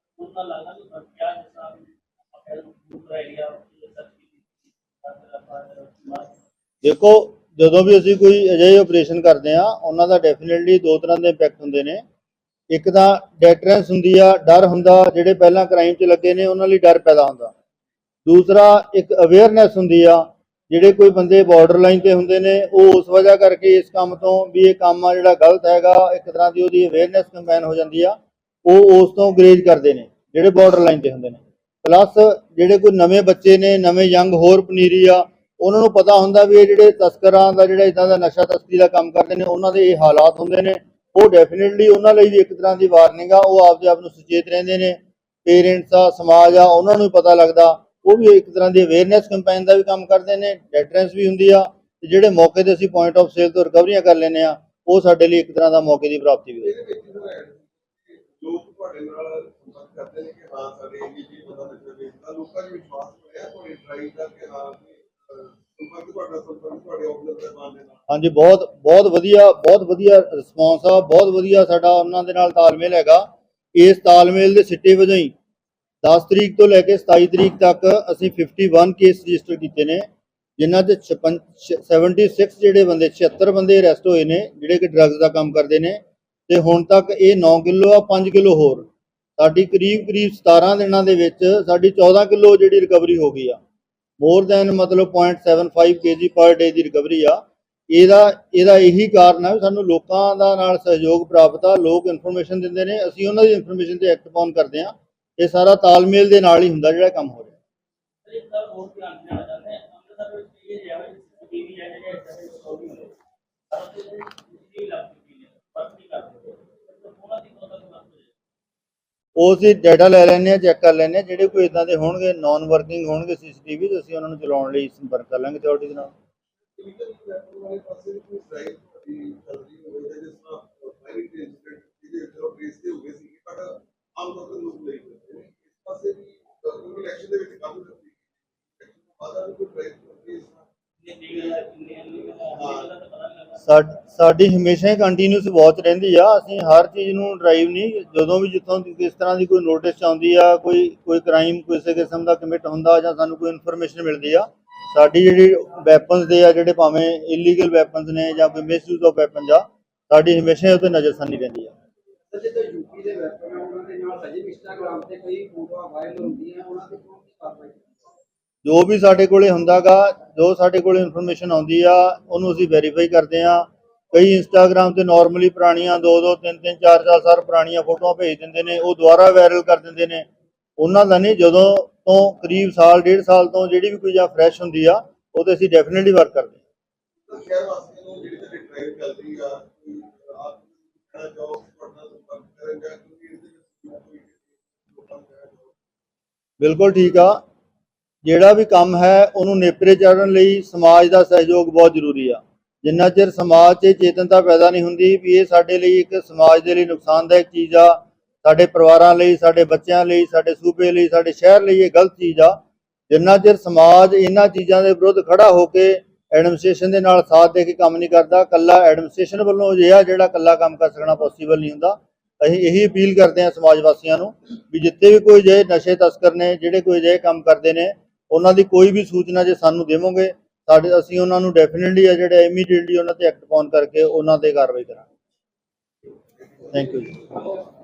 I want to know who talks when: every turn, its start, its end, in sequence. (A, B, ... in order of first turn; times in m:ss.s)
0:00.2-0:06.3 A
0:06.8-0:12.0 B
0:12.7-0:17.5 B
0:18.3-0:56.7 B
0:56.6-1:08.0 C
1:08.1-1:15.3 B
1:16.0-1:20.0 B
1:20.6-1:33.6 B
1:34.2-1:47.6 B
1:48.2-1:53.1 A
1:53.7-1:58.3 A
1:59.4-2:06.1 B
2:06.8-2:20.7 C
2:21.0-2:23.6 A
2:22.5-2:22.9 C
2:23.6-2:41.7 B
2:42.3-2:48.0 D
2:48.6-3:00.2 B
3:00.8-3:06.6 B
3:07.2-3:15.8 C
3:16.6-3:17.4 B
3:18.2-3:32.6 B
3:33.1-3:55.1 B
3:56.7-3:57.2 B